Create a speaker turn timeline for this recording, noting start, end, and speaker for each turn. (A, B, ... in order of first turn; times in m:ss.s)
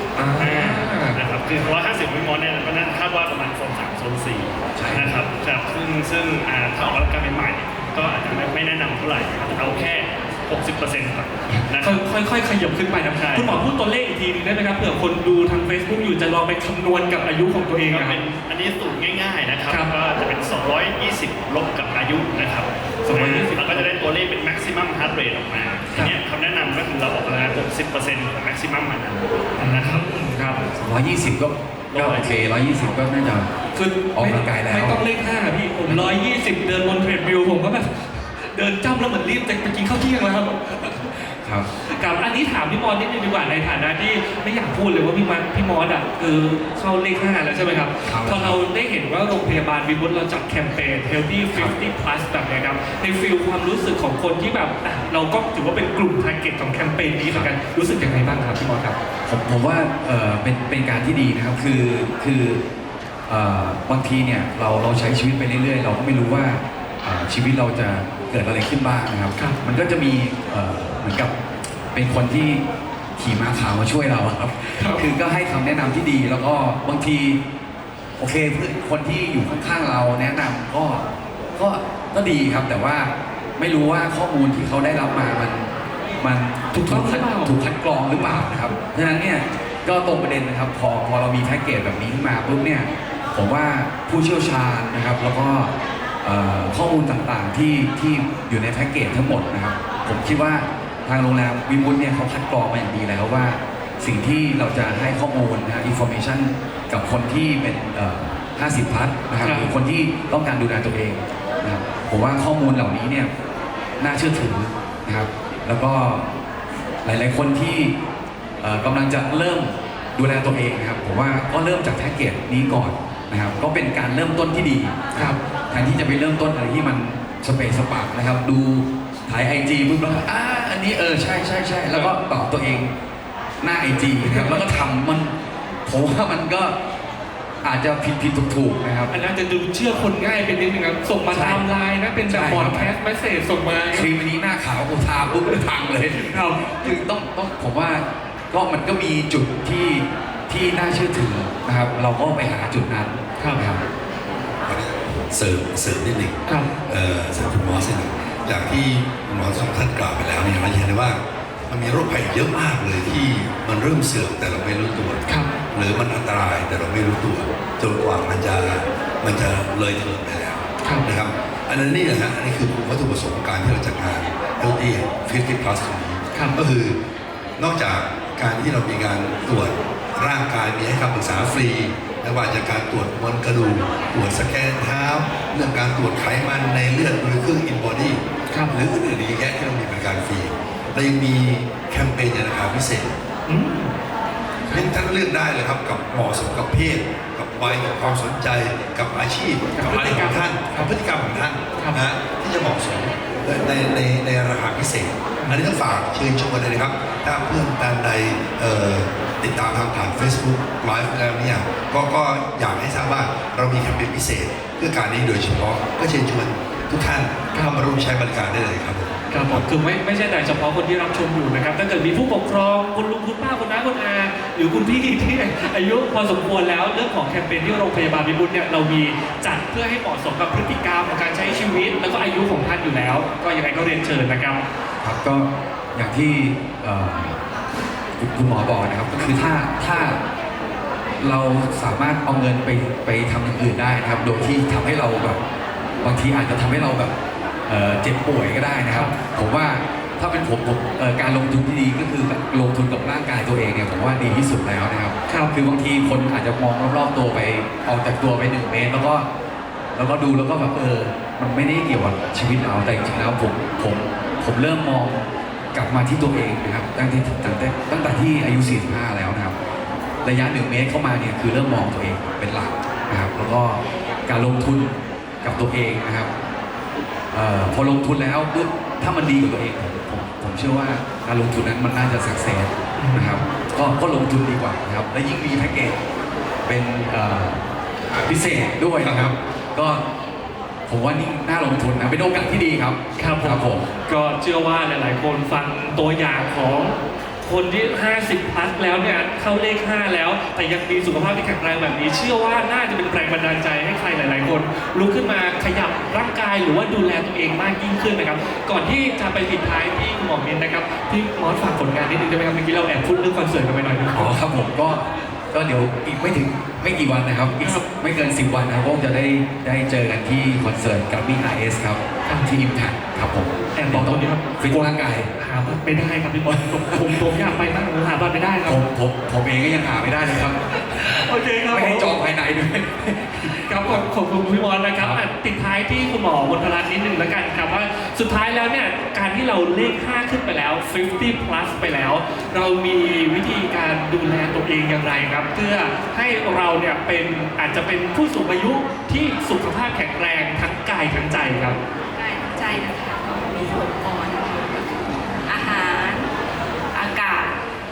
0:00.2-0:01.2 A
0:00.4-0:12.0 B
0:04.7-0:05.1 C
0:11.8-0:18.2 A
0:13.1-0:13.6 B
0:17.9-0:30.1 B
0:23.0-0:23.9 A
0:29.6-0:30.6 A
0:30.7-0:33.5 C
0:31.9-0:32.3 B
0:33.7-0:41.2 A
0:34.1-0:35.0 C
0:35.8-0:36.2 C
0:41.3-0:41.7 C
0:41.8-0:59.0 A
0:48.0-0:48.6 C
0:57.2-0:57.6 C
0:59.2-1:02.6 C
1:03.3-1:11.3 C
1:11.9-1:12.6 C
1:13.2-1:17.4 C
1:14.8-1:15.0 A
1:18.2-1:21.0 C
1:21.6-1:53.3 C
1:26.7-1:27.6 A
1:28.1-1:28.7 A
1:49.4-1:49.7 A
1:54.0-1:56.3 C
1:57.0-1:57.9 C
1:58.6-2:12.9 C
2:05.1-2:05.4 A
2:13.6-2:16.8 C
2:14.2-2:14.6 A
2:17.6-2:19.1 C
2:19.1-2:24.1 A
2:21.3-2:21.6 C
2:22.2-2:22.9 C
2:23.9-2:33.8 C
2:26.1-2:26.9 A
2:33.4-2:33.6 A
2:34.7-2:57.0 D
2:45.2-2:45.6 A
2:50.8-2:51.1 A
2:57.6-3:13.2 D
3:08.5-3:08.8 A
3:13.5-3:14.0 A
3:14.7-3:39.6 D
3:19.8-3:20.9 A
3:21.8-3:22.0 A
3:25.4-3:25.6 A
3:37.5-3:37.9 A
3:39.3-3:54.6 A
3:55.0-3:57.4 C
3:58.2-4:00.2 C
4:01.2-4:05.4 C
4:06.0-4:07.1 C
4:07.7-4:19.2 C
4:15.3-4:15.5 A
4:20.0-4:29.5 C
4:30.2-4:36.3 C
4:37.3-4:46.0 C
4:43.0-4:43.4 A
4:46.6-4:47.6 C
4:48.2-4:50.0 C
4:49.0-4:49.3 D
4:50.9-4:53.9 C
4:53.2-5:14.4 A
5:14.1-5:25.3 C
5:23.7-5:28.8 A
5:26.4-5:27.6 C
5:28.6-5:34.1 C
5:30.7-5:32.1 A
5:33.6-5:51.8 A
5:52.1-5:56.3 E
5:56.9-5:57.6 E